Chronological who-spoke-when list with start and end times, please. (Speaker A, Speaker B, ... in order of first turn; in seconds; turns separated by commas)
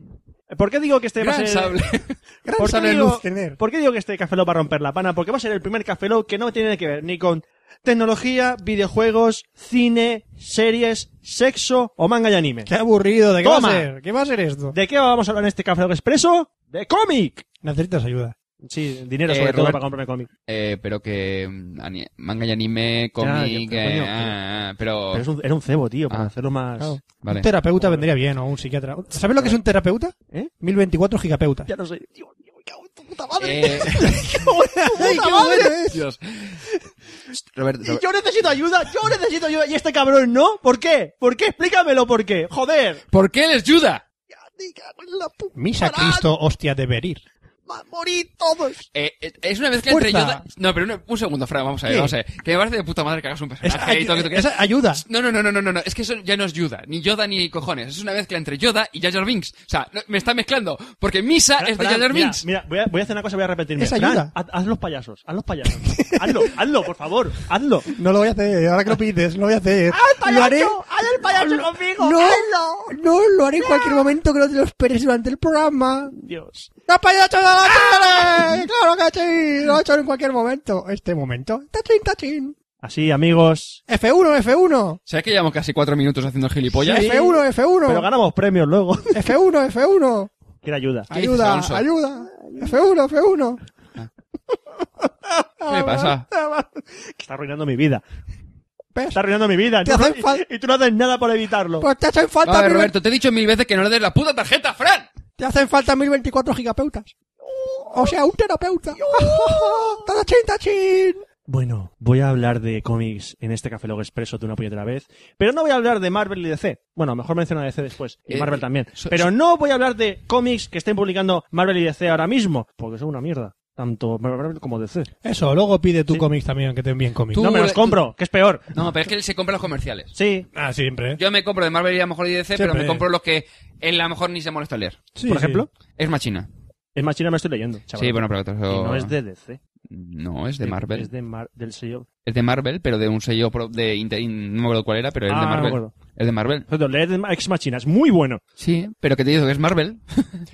Speaker A: 0.5-1.8, Speaker B: 1.2-2.2, Speaker C: 2.5-3.6, Speaker A: 2.6-12.7, Speaker C: 12.7-14.8, Speaker A: 13.4-13.9, Speaker A: 14.7-17.4, Speaker C: 17.6-18.4, Speaker A: 18.6-20.3, Speaker B: 19.3-19.8, Speaker B: 20.5-25.2, Speaker A: 23.2-24.4, Speaker A: 25.1-27.0, Speaker C: 26.8-31.7, Speaker B: 27.2-27.5, Speaker A: 27.8-28.1, Speaker A: 31.7-35.8, Speaker B: 33.4-34.0, Speaker C: 34.0-36.0, Speaker B: 35.9-36.6, Speaker B: 37.3-38.0, Speaker A: 37.8-43.0, Speaker B: 43.1-44.0, Speaker A: 44.3-46.3, Speaker C: 45.6-47.2, Speaker A: 47.7-48.9, Speaker B: 48.9-62.5, Speaker C: 49.9-50.4, Speaker C: 51.9-52.1, Speaker C: 53.6-55.0, Speaker A: 61.6-67.9, Speaker C: 63.8-64.3, Speaker C: 65.9-66.3, Speaker C: 67.9-76.1, Speaker A: 69.9-73.0, Speaker A: 73.6-74.1, Speaker A: 76.1-76.7, Speaker C: 76.9-82.6, Speaker A: 77.7-78.5, Speaker A: 82.8-83.8, Speaker C: 83.9-85.0, Speaker B: 85.1-87.1, Speaker C: 86.8-88.1, Speaker A: 86.8-89.3, Speaker C: 89.1-90.3, Speaker A: 90.6-91.1, Speaker C: 91.1-93.6, Speaker B: 91.1-91.9, Speaker A: 92.3-92.7, Speaker C: 95.4-96.8, Speaker B: 95.7-96.2, Speaker A: 97.1-98.0, Speaker C: 99.0-99.2, Speaker A: 99.1-101.9, Speaker C: 99.8-100.5, Speaker C: 101.8-102.9, Speaker B: 102.5-105.1, Speaker C: 105.4-107.1, Speaker A: 107.5-108.1, Speaker C: 107.9-111.2, Speaker A: 108.9-110.0, Speaker A: 111.5-125.1, Speaker B: 118.3-119.3, Speaker C: 125.2-127.5, Speaker B: 127.3-128.0, Speaker A: 127.4-128.7, Speaker B: 128.7-130.1, Speaker A: 130.1-130.5, Speaker C: 130.5-131.2, Speaker B: 131.2-135.1, Speaker C: 132.6-133.1, Speaker C: 135.2-135.7, Speaker A: 135.3-135.7, Speaker B: 136.0-136.5, Speaker A: 136.9-139.6, Speaker B: 138.0-139.1, Speaker B: 139.9-141.1, Speaker A: 140.6-142.1, Speaker B: 142.2-146.7, Speaker A: 145.3-145.9, Speaker A: 146.7-148.4, Speaker B: 148.6-150.4